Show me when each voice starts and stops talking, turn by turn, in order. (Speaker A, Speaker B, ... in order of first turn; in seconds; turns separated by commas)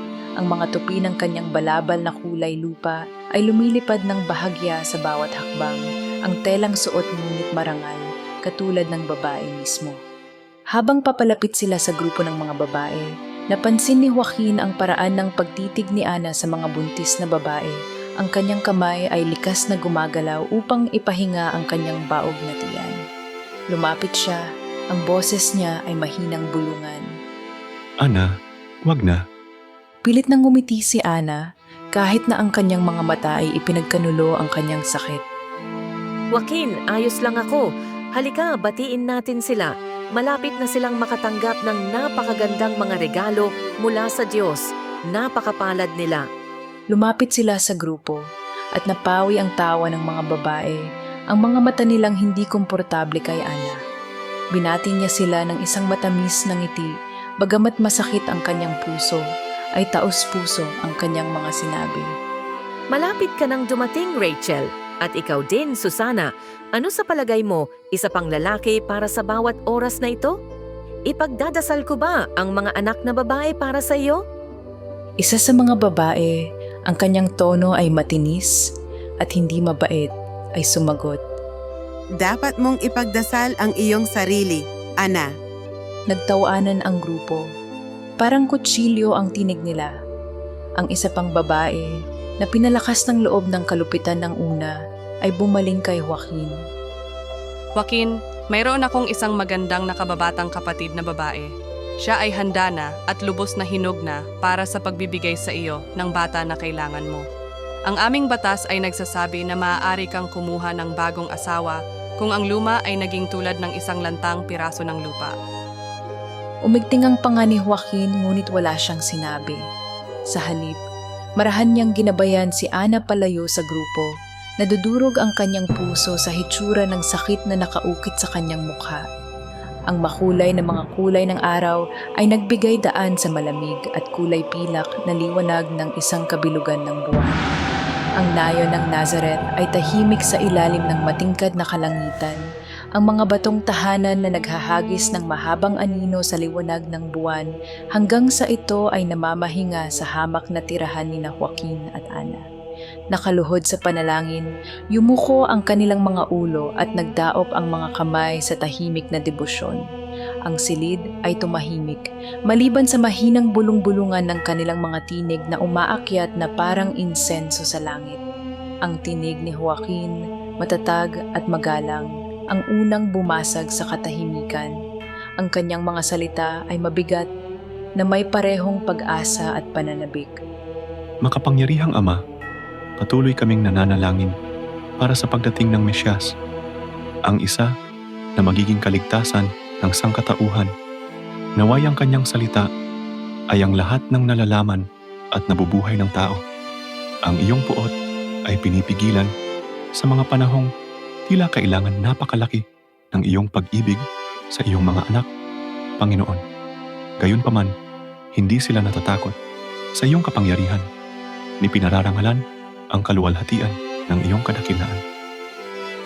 Speaker A: 0.4-10.0, Speaker A: 10.7-23.0, Speaker A: 23.7-27.1, Speaker B: 28.0-28.3, Speaker B: 28.9-29.2, Speaker A: 30.0-31.4, Speaker A: 31.9-35.2, Speaker C: 36.3-46.2, Speaker A: 46.9-48.2, Speaker A: 48.8-50.8, Speaker A: 51.3-53.8, Speaker A: 54.5-56.9, Speaker A: 57.4-59.2, Speaker A: 59.8-62.1, Speaker C: 62.9-70.3, Speaker C: 71.1-74.2, Speaker A: 75.2-76.3, Speaker A: 76.9-78.5, Speaker A: 79.2-81.2, Speaker D: 82.1-85.3, Speaker A: 86.1-87.4, Speaker A: 88.2-89.9, Speaker A: 90.8-91.9, Speaker A: 92.4-96.5, Speaker E: 97.8-101.5, Speaker E: 102.0-107.2, Speaker E: 107.9-115.3, Speaker A: 116.7-119.6, Speaker A: 120.3-120.8, Speaker A: 121.4-124.1, Speaker A: 124.6-129.0, Speaker A: 129.9-137.4, Speaker A: 138.2-142.4, Speaker A: 142.9-152.4, Speaker A: 153.1-159.8, Speaker A: 160.5-168.2, Speaker A: 168.8-174.7, Speaker A: 175.4-177.3, Speaker A: 178.0-180.3, Speaker B: 181.2-182.2, Speaker B: 183.0-184.3, Speaker B: 185.0-186.3, Speaker B: 187.3-187.7, Speaker B: 188.4-190.7, Speaker B: 191.6-192.7, Speaker B: 193.5-196.4, Speaker B: 197.3-197.9, Speaker B: 198.5-199.3, Speaker B: 200.0-200.7, Speaker B: 201.3-205.2, Speaker B: 206.0-206.4, Speaker B: 207.2-207.7, Speaker B: 208.3-209.3, Speaker B: 210.0-210.8, Speaker B: 211.6-212.4, Speaker B: 212.9-215.0